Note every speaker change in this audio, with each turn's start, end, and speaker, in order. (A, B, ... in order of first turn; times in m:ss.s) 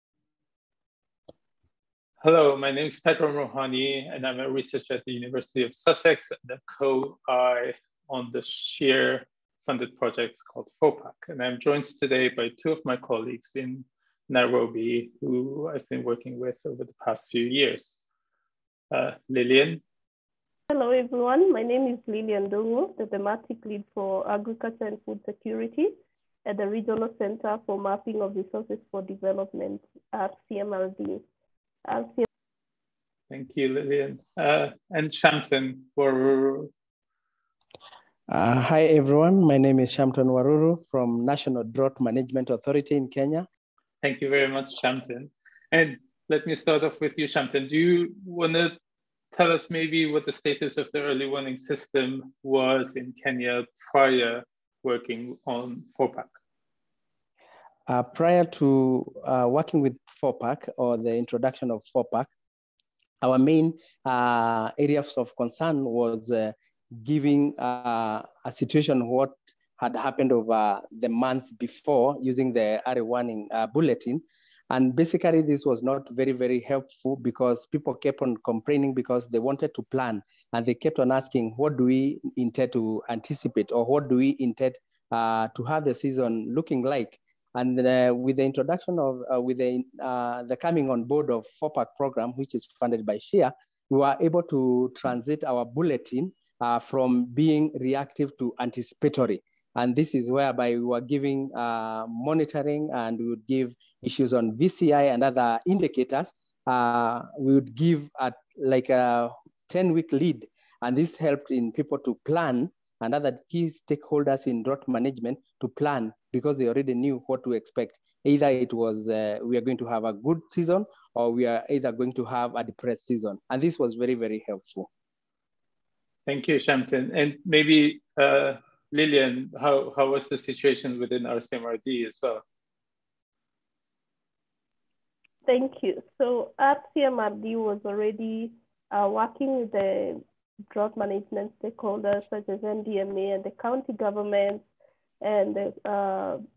0:02.2-0:18.0 A
0:18.9-0:19.8 A
0:20.7-0:31.2 B
0:31.8-0:32.2 B
0:33.3-0:36.7 A
0:38.3-0:43.5 C
0:44.0-0:48.8 A
0:49.3-0:56.3 A
0:57.9-1:02.3 C
1:03.2-2:04.9 C
2:06.2-2:12.4 A
2:15.4-2:24.6 B
2:25.2-2:26.4 B